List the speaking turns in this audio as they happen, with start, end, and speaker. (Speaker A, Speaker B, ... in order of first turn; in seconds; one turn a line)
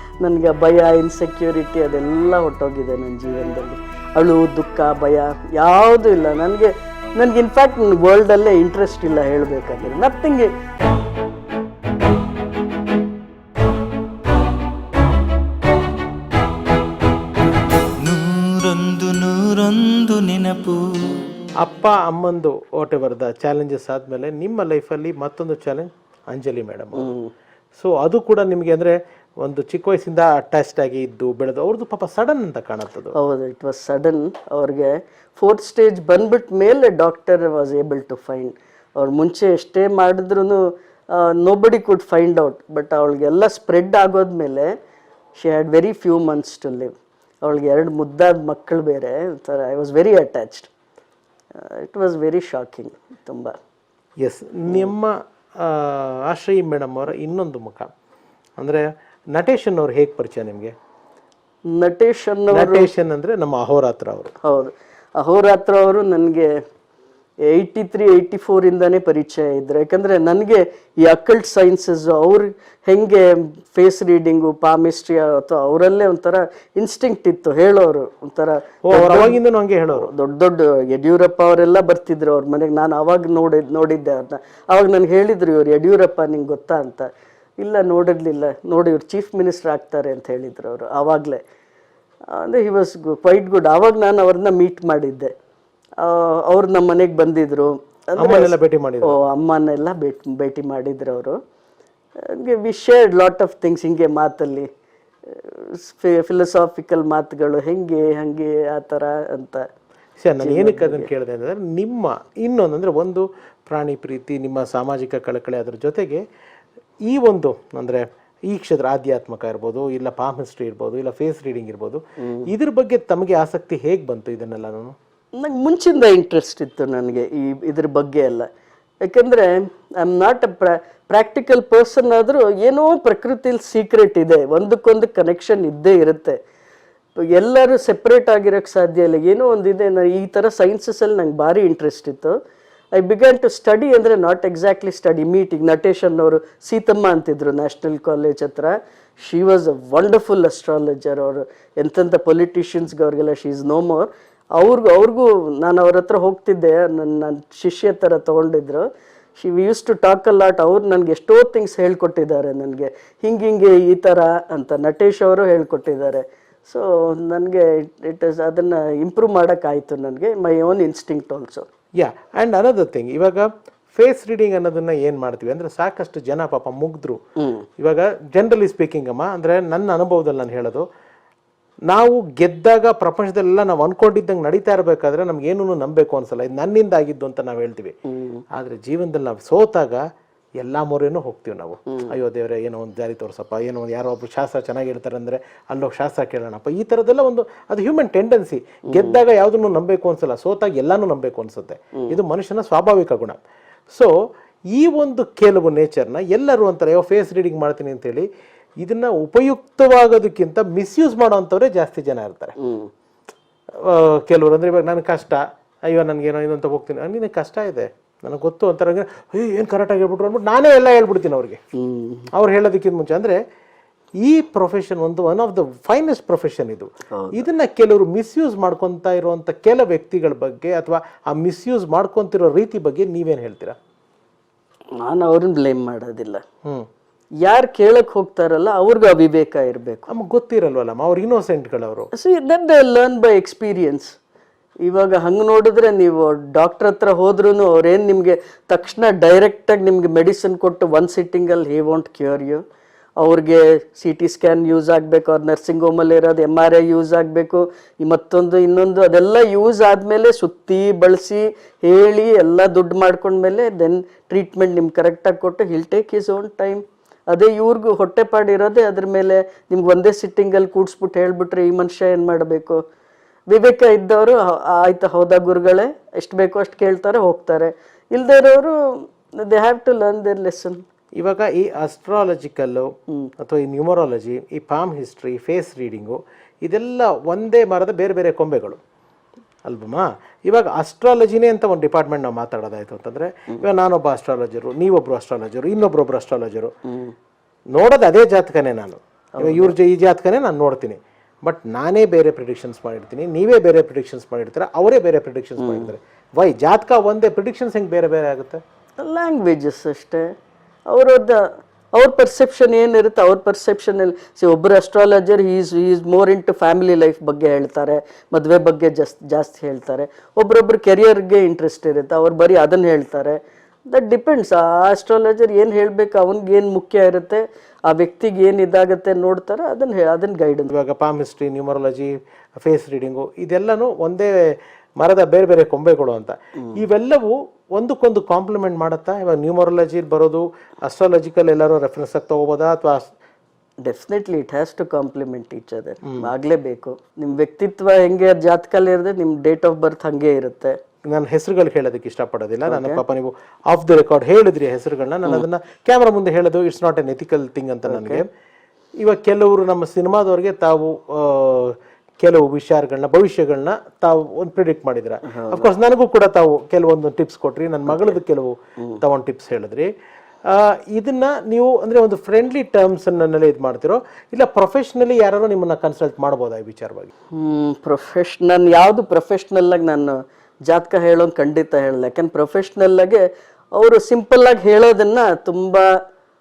Speaker A: 0.2-10.5
Speaker B: 18.0-21.2
Speaker C: 21.6-27.1
Speaker A: 27.0-27.3
Speaker C: 27.8-33.1
Speaker A: 33.1-44.7
Speaker A: 45.4-50.7
Speaker A: 51.5-53.5
Speaker C: 54.2-57.9
Speaker C: 58.6-60.7
Speaker A: 61.7-62.9
Speaker C: 62.5-64.3
Speaker A: 64.4-66.5
Speaker A: 67.4-79.4
Speaker C: 78.8-80.1
Speaker A: 79.9-87.1
Speaker A: 87.6-91.4
Speaker A: 92.3-95.3
Speaker A: 96.0-101.4
Speaker C: 98.2-99.2
Speaker A: 102.2-104.7
Speaker A: 105.2-109.6
Speaker C: 110.2-116.2
Speaker A: 110.4-111.1
Speaker C: 117.1-124.9
Speaker A: 125.4-128.5
Speaker A: 129.0-136.4
Speaker A: 137.2-142.4
Speaker A: 142.9-171.7
Speaker C: 172.0-177.2
Speaker A: 177.4-177.6
Speaker C: 177.8-180.8
Speaker C: 181.9-187.9
Speaker A: 188.1-188.4
Speaker C: 188.5-190.0
Speaker C: 190.6-203.4
Speaker A: 198.9-199.2
Speaker C: 204.7-208.3
Speaker C: 208.8-212.6
Speaker A: 212.6-212.9
Speaker C: 213.8-221.6
Speaker A: 221.8-222.3
Speaker C: 222.3-223.4
Speaker C: 224.2-233.8
Speaker A: 227.1-227.4
Speaker A: 234.9-236.4
Speaker A: 237.4-240.1
Speaker C: 240.1-242.1
Speaker A: 242.1-244.2
Speaker A: 244.8-252.6
Speaker A: 253.2-272.8
Speaker A: 273.5-280.8
Speaker C: 281.2-288.8
Speaker C: 289.6-296.7
Speaker A: 296.9-297.1
Speaker C: 297.7-308.6
Speaker A: 299.4-299.7
Speaker A: 305.6-305.9
Speaker A: 309.0-310.3
Speaker A: 310.9-330.7
Speaker C: 330.7-332.1
Speaker C: 332.6-343.1
Speaker A: 343.8-350.8
Speaker C: 351.1-358.3
Speaker A: 352.7-353.0
Speaker A: 357.9-358.2
Speaker C: 359.0-369.9
Speaker A: 365.3-365.7
Speaker C: 370.5-377.1
Speaker A: 377.3-383.2
Speaker A: 383.8-385.9